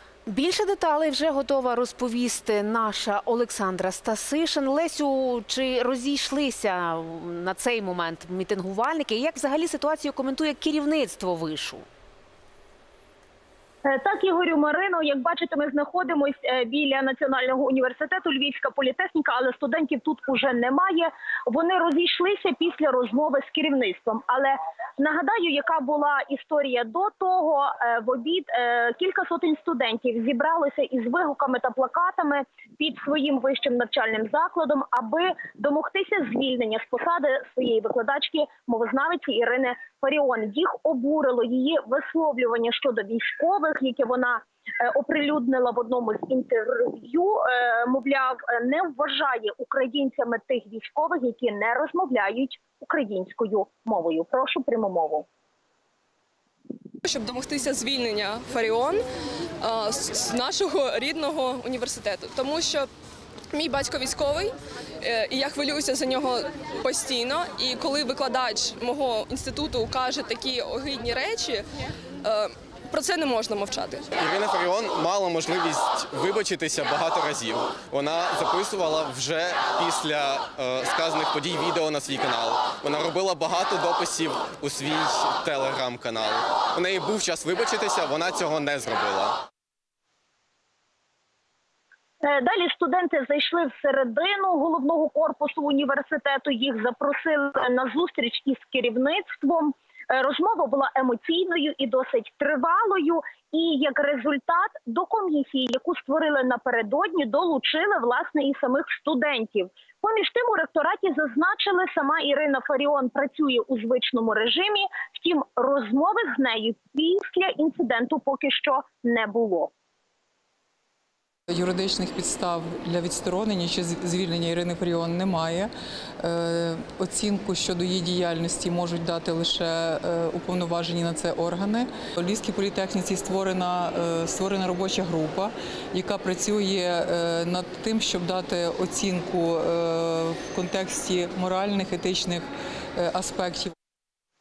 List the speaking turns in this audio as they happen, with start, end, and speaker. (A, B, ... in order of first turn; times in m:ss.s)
0:00.2-0:11.8 A
0:13.8-0:55.2 B
0:57.0-0:59.0 C
0:59.6-1:02.9 C
1:03.5-1:11.6 C
1:12.2-1:14.1 C
1:14.1-1:29.4 D
1:32.2-1:59.7 B
2:01.5-2:22.4 E
2:23.0-2:23.7 E